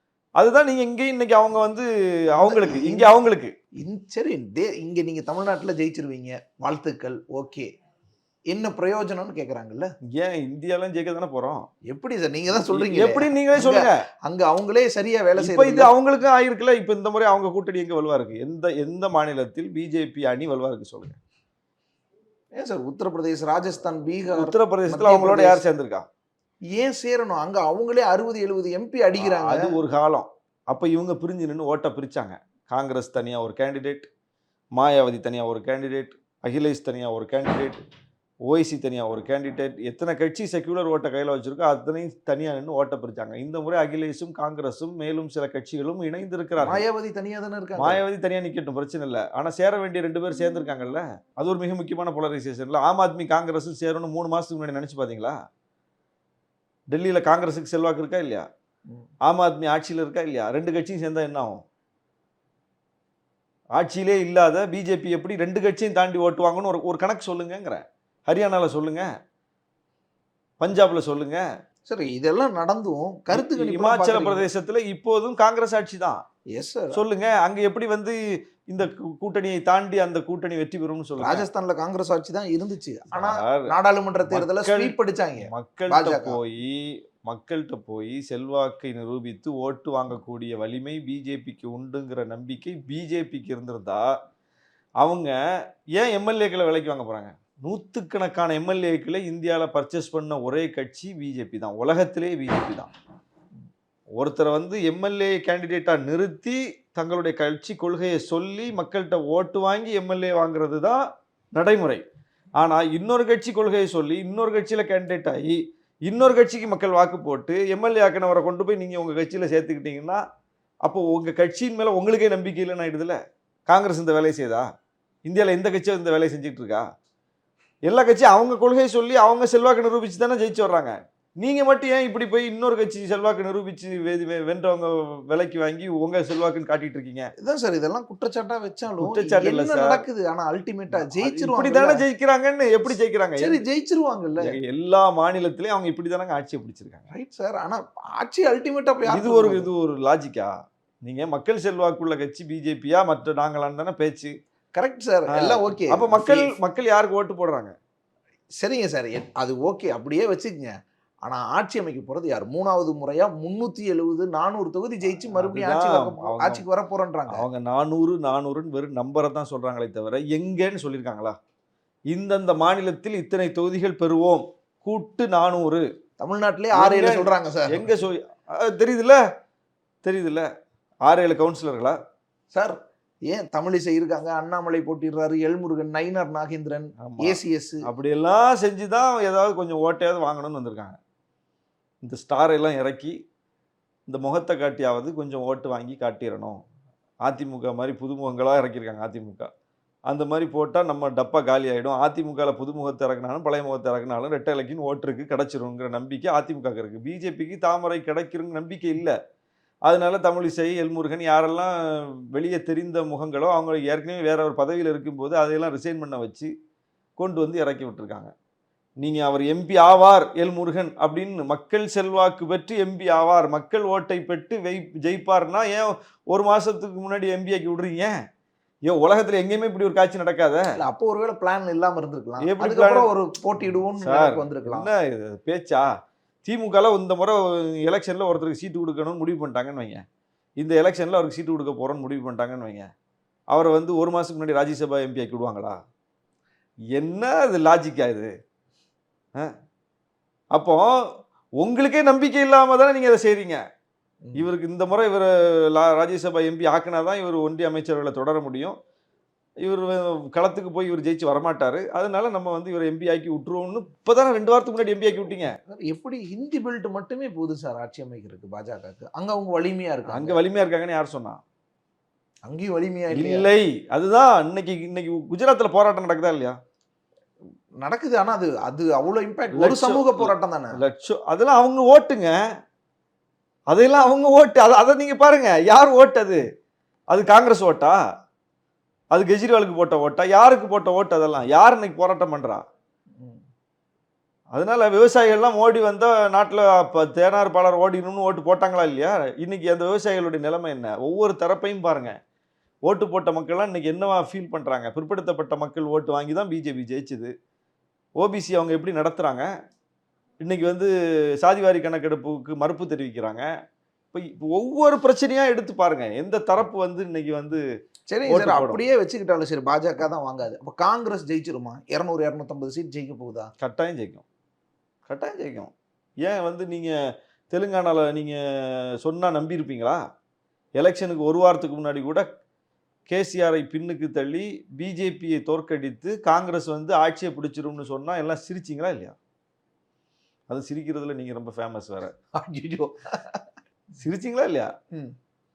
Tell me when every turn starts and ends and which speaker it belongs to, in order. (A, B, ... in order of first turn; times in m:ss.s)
0:00.4-0:03.5 A
0:02.3-0:03.1 B
0:03.8-0:07.7 B
0:08.5-0:09.9 B
0:10.1-0:11.7 A
0:11.9-0:15.9 B
0:12.7-0:14.0 A
0:15.4-0:21.2 A
0:22.6-0:25.6 B
0:24.4-0:26.0 A
0:26.7-0:29.8 B
0:29.2-0:34.1 A
0:34.7-0:37.8 A
0:38.5-0:46.8 A
0:46.6-0:48.0 B
0:47.8-0:55.4 A
0:56.9-0:58.5 A
0:59.2-1:01.6 A
1:03.8-1:09.1 A
1:10.6-1:11.4 A
1:11.9-1:14.5 B
1:13.3-1:16.2 A
1:16.5-1:17.0 B
1:16.9-1:21.5 A
1:21.2-1:26.4 B
1:23.1-1:23.7 A
1:24.3-1:34.1 A
1:35.0-1:35.4 A
1:35.9-1:42.9 A
1:44.2-1:51.0 A
1:51.5-1:52.0 A
1:52.6-2:00.2 A
2:00.8-2:04.7 A
2:05.2-2:06.8 A
2:07.9-2:17.3 A
2:17.4-2:22.0 B
2:19.0-2:20.0 A
2:20.9-2:23.6 A
2:23.4-2:24.6 B
2:24.4-2:27.0 A
2:27.1-2:29.7 B
2:29.1-2:30.5 A
2:31.0-2:34.3 A
2:34.8-2:36.5 B
2:35.3-2:37.7 A
2:38.6-2:47.5 B
2:45.3-2:46.6 A
2:47.3-2:51.4 A
2:52.1-2:55.9 A
2:56.2-2:57.9 B
2:56.7-2:59.2 A
3:00.0-3:00.5 A
3:01.0-3:02.0 A
3:02.5-3:07.8 B
3:07.0-3:11.0 A
3:12.0-3:13.2 A
3:14.1-3:16.6 A
3:17.2-3:19.5 A
3:20.1-3:29.2 A
3:29.9-3:36.5 A
3:37.2-3:38.3 A
3:39.0-3:48.1 A
3:48.9-3:50.7 A
3:50.8-3:54.9 B
3:52.4-3:53.1 A
3:53.6-3:55.9 A
3:56.4-4:00.0 A
4:00.6-4:02.9 A
4:03.5-4:05.8 A
4:06.9-4:08.3 A
4:10.5-4:10.9 A
4:11.6-4:13.6 A
4:14.4-4:18.8 A
4:19.6-4:25.5 A
4:25.6-4:30.4 B
4:30.1-4:31.4 A
4:32.5-4:33.5 B
4:33.1-4:36.6 A
4:37.8-4:40.8 B
4:39.5-4:42.4 A
4:43.7-4:46.5 A
4:47.1-4:48.0 A
4:49.1-4:52.6 A
4:53.2-4:53.4 B
4:54.5-5:02.2 A
5:02.8-5:07.3 A
5:08.2-5:09.5 A
5:10.4-5:10.9 A
5:11.4-5:13.5 A
5:14.1-5:17.6 A
5:18.1-5:23.5 B
5:18.3-5:18.8 A
5:23.6-5:24.2 A
5:25.1-5:25.7 A
5:26.2-5:27.0 A
5:27.5-5:30.0 A
5:30.8-5:32.3 A
5:33.1-5:39.2 A
5:40.5-5:42.1 A
5:42.4-5:43.4 B
5:44.0-5:44.7 A